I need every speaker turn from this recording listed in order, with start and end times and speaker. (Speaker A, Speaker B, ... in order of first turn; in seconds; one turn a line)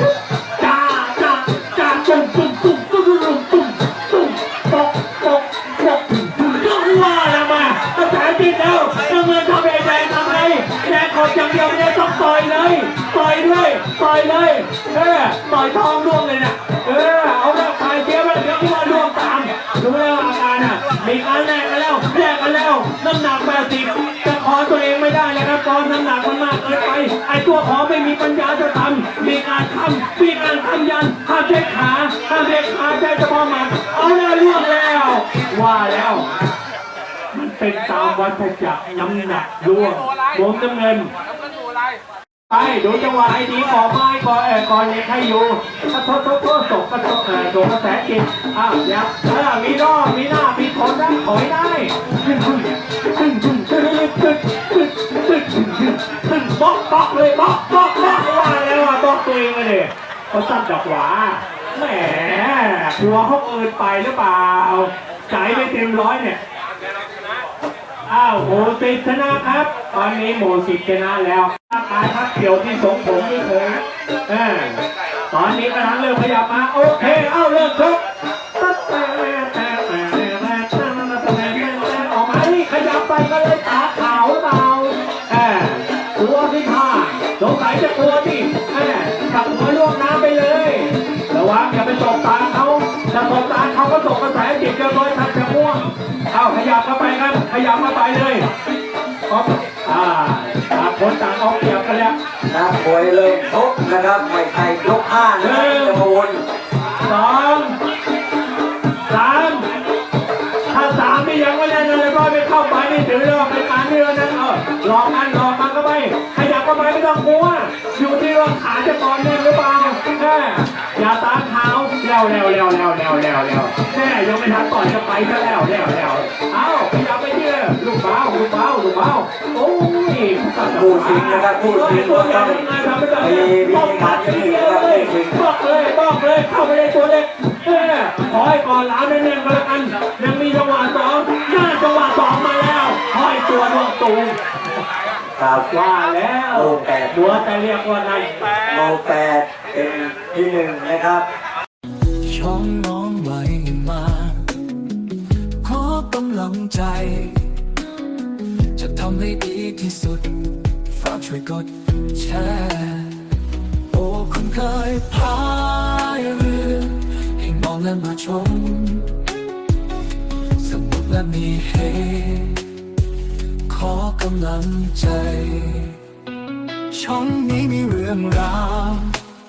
Speaker A: 0.6-36.4
Speaker A: 37.3-41.1
Speaker A: 42.5-66.4
Speaker A: 68.1-78.0
Speaker A: 78.5-98.5
Speaker A: 99.3-102.2
Speaker B: 102.5-106.4
Speaker A: 105.4-106.0
Speaker A: 107.0-107.8
Speaker A: 109.1-109.7
Speaker A: 110.7-144.4
Speaker B: 130.6-132.7
Speaker B: 133.2-135.4
Speaker B: 145.4-145.7
Speaker A: 145.6-148.5
Speaker B: 146.5-147.4
Speaker B: 148.7-151.2
Speaker C: 152.2-154.6
Speaker C: 155.6-157.5
Speaker C: 158.4-163.3
Speaker C: 163.9-169.2
Speaker C: 170.6-172.7
Speaker C: 173.7-176.0
Speaker C: 176.9-179.2